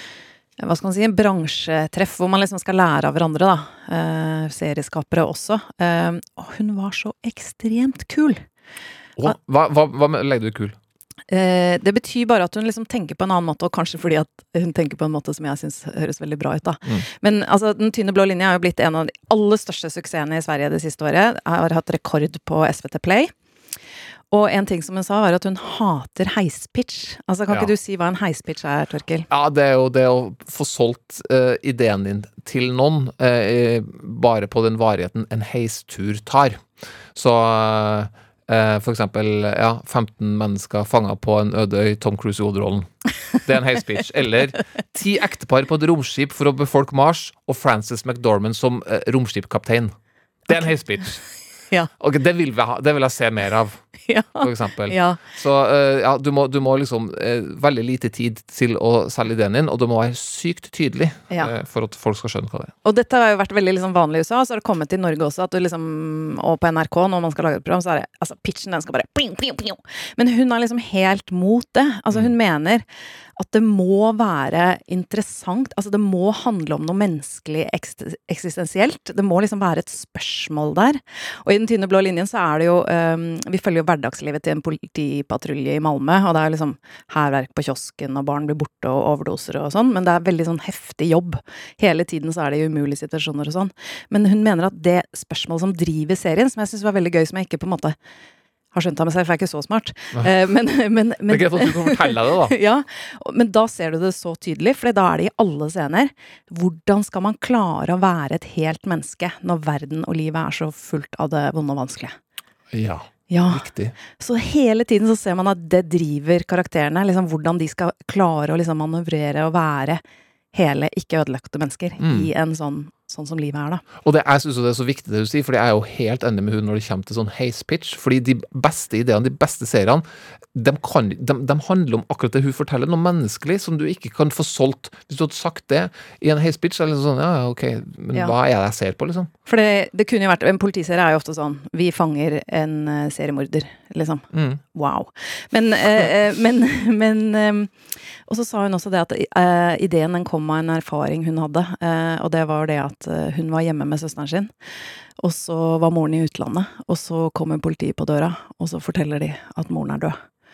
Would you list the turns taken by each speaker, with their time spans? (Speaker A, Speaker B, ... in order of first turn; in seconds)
Speaker A: 0.6-8.4, 11.3-23.3, 24.3-29.3, 54.1-55.2, 62.8-72.8, 73.4-98.0, 98.7-112.2, 113.3-120.0, 120.5-123.8, 139.5-147.7, 148.3-154.5, 155.2-160.2
Speaker B: 9.2-10.8, 29.3-49.9, 50.5-51.2, 52.0-53.8, 54.4-62.7, 101.3-102.6, 112.7-114.0, 122.0-122.3, 124.0-139.3, 144.3-144.6